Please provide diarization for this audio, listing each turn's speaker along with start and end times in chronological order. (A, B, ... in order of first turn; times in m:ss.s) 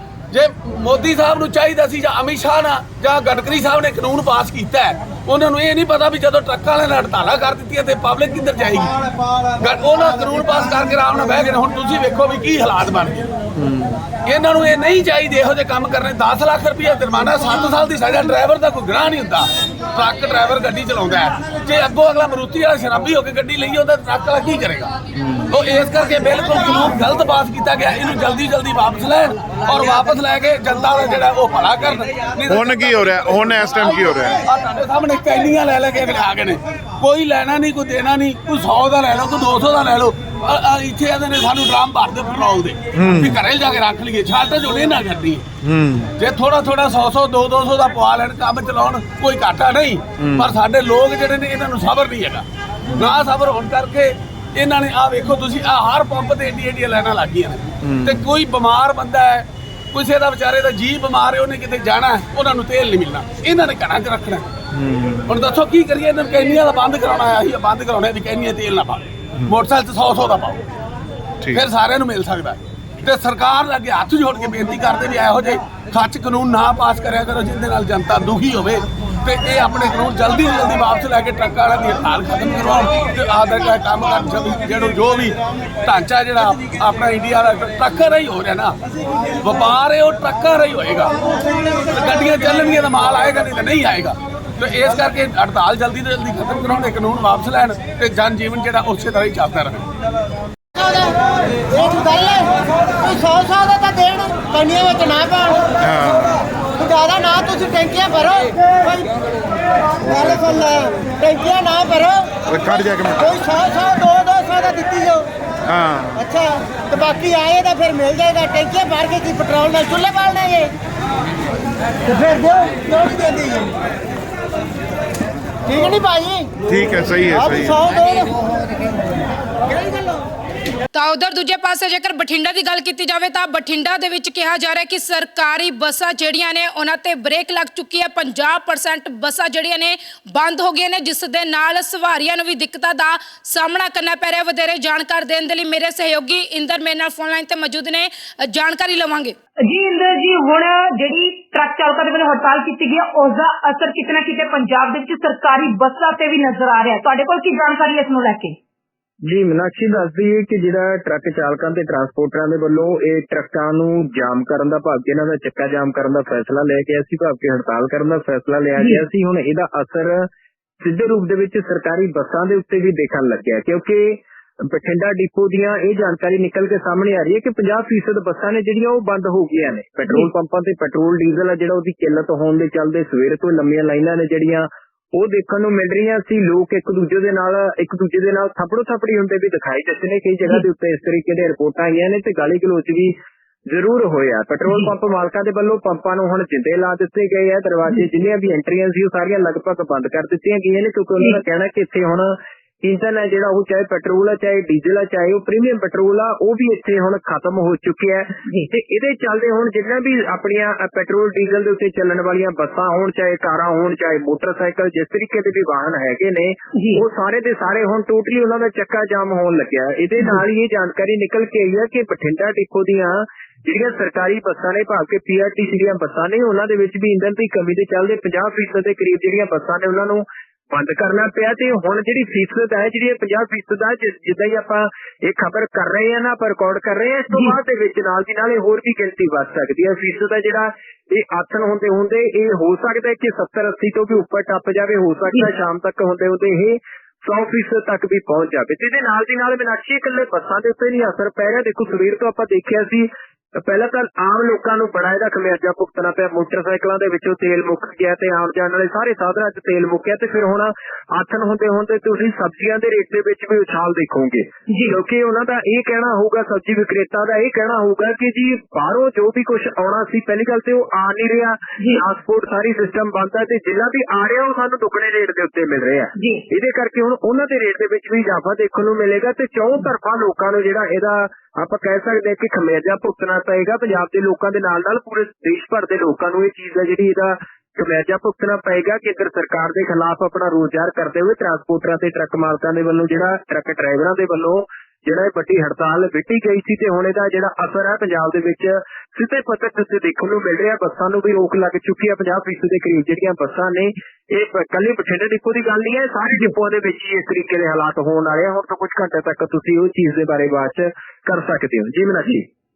0:00.3-0:08.9 A
0:09.6-0:13.3 A
0:13.6-0:13.9 B
0:14.2-0:25.0 A
0:25.2-0:25.5 B
0:25.5-0:45.4 A
0:32.5-0:34.4 B
0:43.0-0:43.4 B
0:45.6-0:46.1 B
0:46.2-1:04.5 A
0:50.2-0:50.5 B
0:57.8-0:58.2 B
1:04.7-1:05.3 B
1:05.3-1:10.6 A
1:11.5-1:28.8 A
1:29.4-1:31.1 A
1:31.9-1:39.9 A
1:40.8-1:41.2 C
1:41.8-1:45.8 C
1:45.8-1:46.5 B
1:46.8-1:49.1 C
1:50.0-1:50.8 B
1:50.6-1:52.4 C
1:52.4-1:53.5 B
1:53.4-1:55.3 C
1:55.7-1:56.3 B
1:56.2-2:00.7 C
2:02.1-2:03.7 C
2:05.7-2:06.6 C
2:06.6-2:07.9 B
2:07.7-2:08.3 C
2:10.9-2:29.4 D
2:29.6-2:38.6 E
2:39.2-2:50.3 F
2:48.8-2:49.0 E
2:50.8-3:13.2 F
3:13.7-5:12.5 F
3:14.7-3:14.9 E
3:36.7-3:37.0 E
3:40.2-3:40.4 E
3:57.3-3:57.6 E
4:24.7-4:25.0 E
4:31.8-4:32.0 E
4:36.2-4:36.4 E